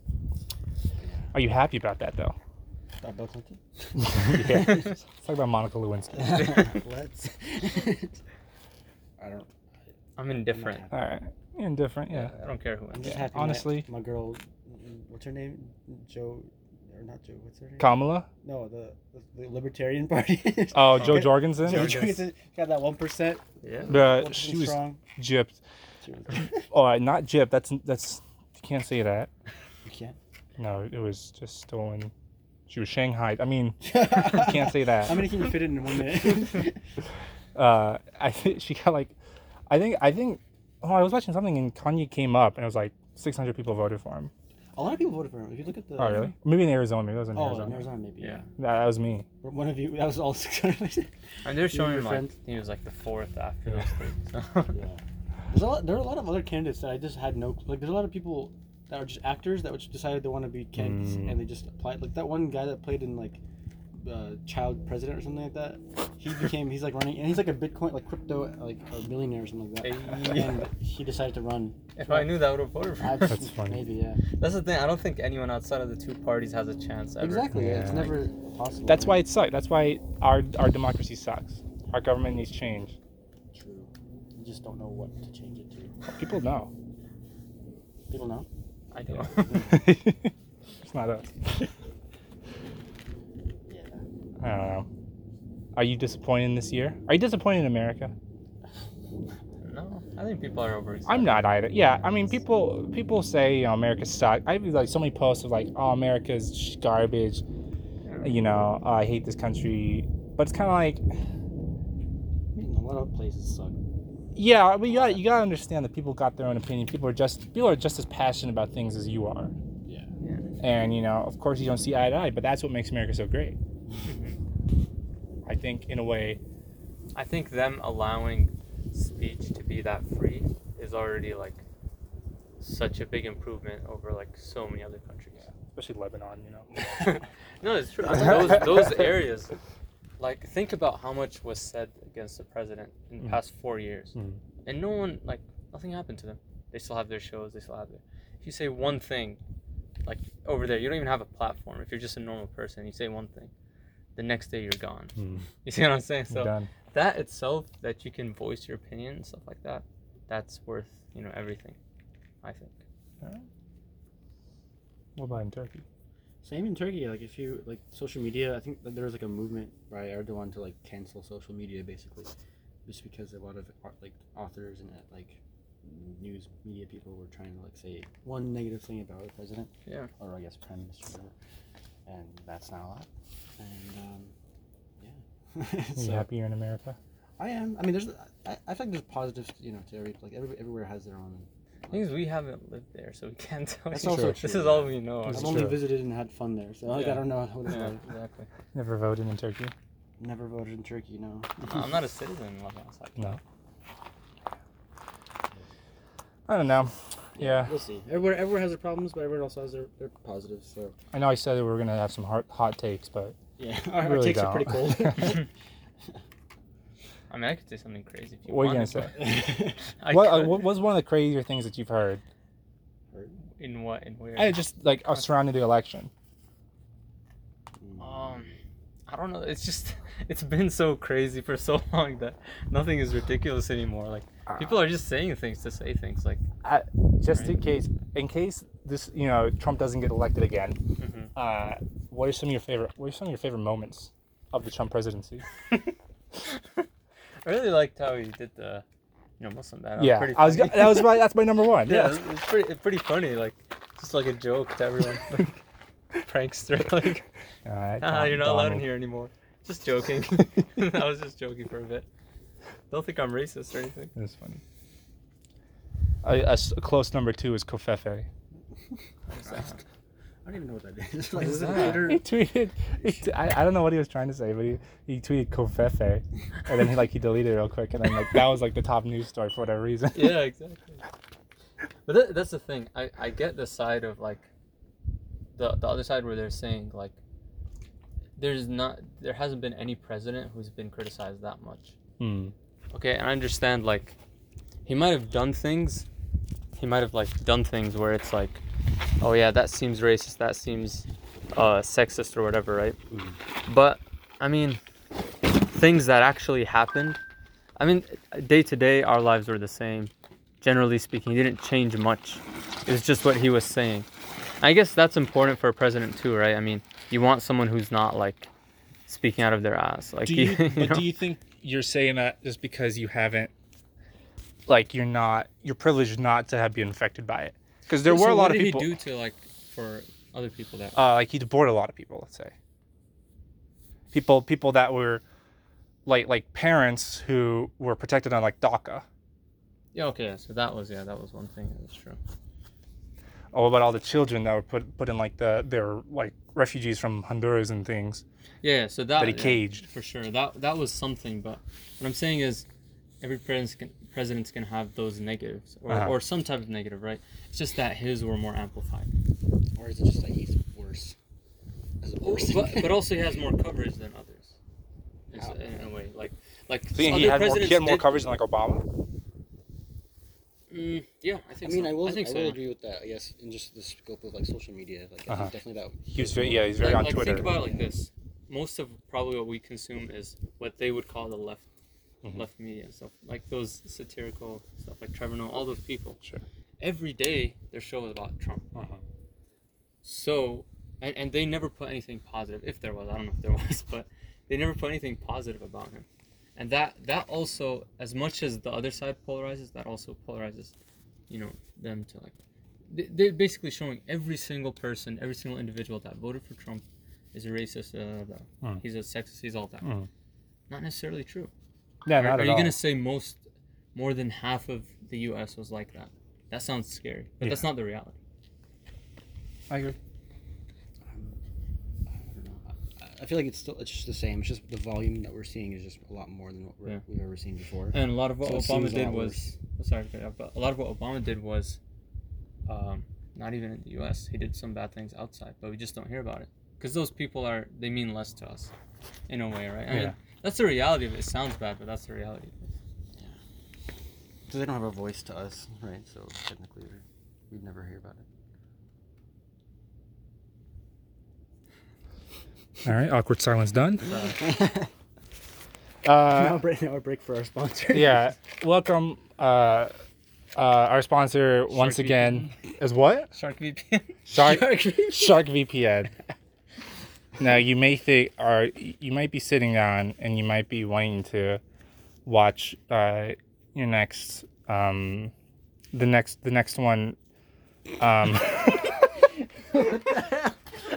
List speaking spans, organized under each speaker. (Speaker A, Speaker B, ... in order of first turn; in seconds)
Speaker A: 1.0-1.3, 3.0-4.9, 6.1-8.2, 9.2-9.5, 10.5-11.0, 12.9-17.9, 18.4-25.0, 26.0-26.6, 29.8-30.2, 33.8-36.8, 44.8-46.3, 47.3-48.5, 49.4-52.3, 54.7-63.4, 64.0-72.3, 73.0-74.2, 77.2-79.2, 83.5-86.0, 88.1-88.5, 89.5-89.9, 93.7-94.0, 102.0-102.3, 112.5-113.8, 114.9-115.2, 138.0-139.0, 166.4-172.3, 172.8-181.3, 182.1-183.1, 183.6-184.3, 185.0-186.3, 187.4-192.1, 193.9-198.0, 200.2-201.8, 207.4-210.9, 213.6-215.5, 219.2-219.8, 223.1-223.4, 227.8-228.4, 270.4-272.2, 359.8-361.1, 362.0-363.0, 371.6-377.8, 421.1-421.4, 422.3-429.5, 444.5-448.2, 454.4-454.9, 456.3-458.3, 464.3-465.4, 479.8-480.3
Speaker B: 1.3-2.4, 4.0-6.7, 10.9-12.3, 13.0-13.9, 17.8-18.3, 20.7-22.0, 23.9-25.6, 26.6-29.3, 30.6-32.1, 32.7-35.3, 37.5-39.1, 39.7-44.3, 46.0-47.9, 48.6-49.2, 60.8-61.4, 73.3-73.8, 77.5-78.1, 78.8-83.0, 86.0-86.7, 89.5-90.3, 90.8-91.6, 94.4-94.9, 95.7-98.1, 101.1-107.4, 108.2-111.0, 114.3-119.5, 120.6-123.6, 125.5-126.4, 135.7-136.7, 138.2-138.8, 144.2-144.4, 155.2-155.4, 156.3-156.7, 165.2-165.8, 186.0-187.0, 195.2-195.8, 198.7-199.7, 206.5-207.7, 211.1-213.4, 214.0-215.4, 218.5-219.4, 220.1-222.2, 224.3-226.1, 234.5-234.8, 236.6-240.8, 241.3-245.5, 250.0-252.2, 257.6-258.8, 264.1-264.6, 266.2-268.3, 271.8-280.4, 292.2-292.5, 320.2-323.5, 324.7-328.9, 331.0-332.5, 334.1-335.2, 336.1-339.1, 343.5-348.2, 349.2-349.8, 355.9-356.1, 366.9-368.8, 376.1-377.5, 388.8-389.0, 409.8-410.1, 412.1-412.8, 417.4-417.7, 419.7-420.0, 439.9-440.1, 452.8-454.1, 456.0-456.6, 457.9-459.9, 460.6-463.3, 464.2-466.1, 467.4-471.6, 472.2-475.3, 475.9-477.2, 478.0-479.2
Speaker C: 10.2-10.9, 12.1-13.1, 20.9-22.2, 23.6-23.9, 51.4-54.8, 69.8-70.6, 72.0-73.4, 74.4-77.5, 88.9-89.6, 99.6-101.7, 108.0-108.3, 120.2-120.5, 124.0-124.4, 127.2-131.6, 132.6-135.5, 137.0-139.6, 140.2-149.4, 150.0-153.5, 154.2-161.8, 162.4-162.8, 191.9-195.7, 196.9-198.5, 201.6-203.4, 217.3-219.5, 220.0-220.8, 223.6-225.3, 228.0-228.5, 229.1-236.4, 237.3-237.6, 241.0-241.3, 246.4-246.8, 247.4-248.8, 249.4-251.2, 251.8-255.6, 256.2-257.2, 258.0-262.1, 262.9-264.1, 269.3-269.8, 271.4-272.1, 280.1-281.0, 282.1-284.5, 285.5-287.2, 288.4-291.9, 292.9-294.1, 294.9-296.1, 296.8-298.6, 299.2-303.0, 303.6-304.8, 305.7-307.2, 307.8-314.1, 314.6-318.5, 319.1-321.1, 328.1-331.0, 339.9-342.2, 348.6-352.6, 353.2-359.1, 362.2-364.6, 365.3-368.1, 370.7-372.6, 376.8-381.7, 382.3-386.2, 386.8-388.9, 390.0-400.8, 401.3-402.3, 402.9-409.9, 410.7-411.5, 412.1-413.4, 413.9-418.1, 427.9-431.8, 432.7-438.7, 439.3-442.7, 454.0-454.4, 461.7-462.6, 463.3-464.1